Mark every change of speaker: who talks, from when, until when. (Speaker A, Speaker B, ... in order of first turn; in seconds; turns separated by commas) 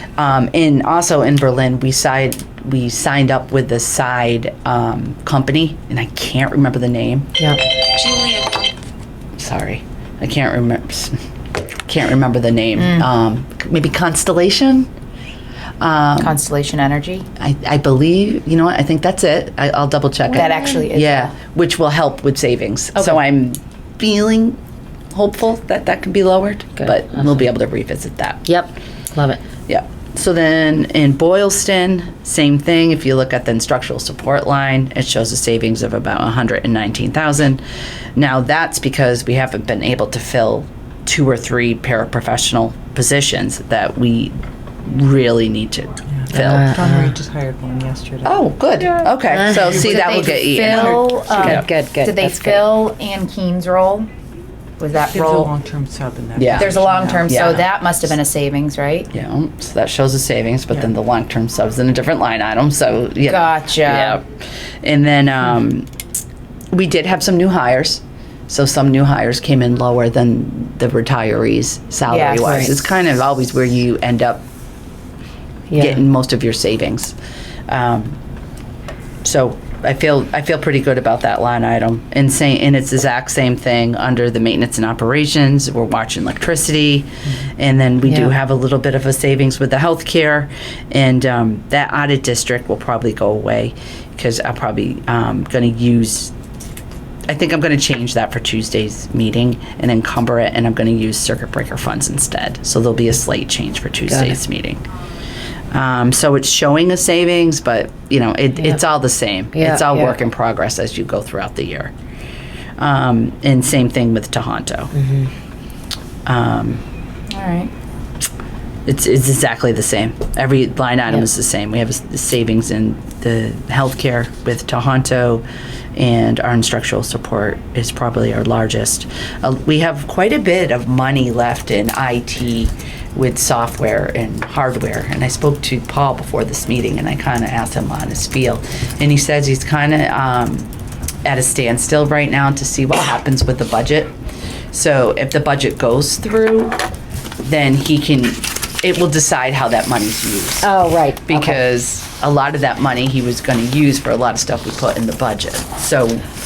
Speaker A: 0.2-7.3, Speaker A: 9.4-11.2, Speaker A: 11.9-14.9, Speaker B: 12.8-13.1, Speaker A: 15.8-16.4, Speaker B: 16.2-17.3, Speaker A: 17.4-24.6, Speaker B: 20.3-21.3, Speaker C: 20.4-20.9, Speaker A: 25.1-28.5, Speaker C: 26.8-27.5, Speaker C: 28.5-29.4, Speaker A: 29.7-37.6, Speaker A: 38.2-46.7, Speaker D: 46.1-49.1, Speaker C: 46.3-47.1, Speaker A: 48.2-51.7, Speaker C: 49.3-49.8, Speaker B: 49.7-54.1, Speaker D: 50.7-51.2, Speaker C: 51.3-52.7, Speaker B: 54.8-55.5, Speaker D: 55.1-57.6, Speaker A: 56.4-56.7, Speaker B: 56.6-59.1, Speaker A: 57.3-57.7, Speaker A: 59.1-64.2, Speaker B: 63.3-64.2, Speaker A: 64.8-65.9, Speaker A: 66.7-74.4, Speaker B: 72.1-72.6, Speaker C: 72.4-72.7, Speaker C: 75.7-76.0, Speaker A: 75.8-77.2, Speaker A: 77.7-78.2, Speaker A: 79.2-96.3, Speaker A: 97.3-104.8, Speaker C: 104.1-104.4, Speaker A: 105.7-111.9, Speaker C: 109.5-110.2, Speaker A: 112.8-114.9, Speaker C: 115.0-115.3, Speaker A: 116.3-116.8, Speaker B: 117.3-117.7, Speaker A: 118.9-140.7, Speaker A: 141.2-144.1, Speaker A: 144.7-146.8, Speaker A: 147.4-150.7, Speaker C: 150.6-151.6, Speaker A: 151.3-156.2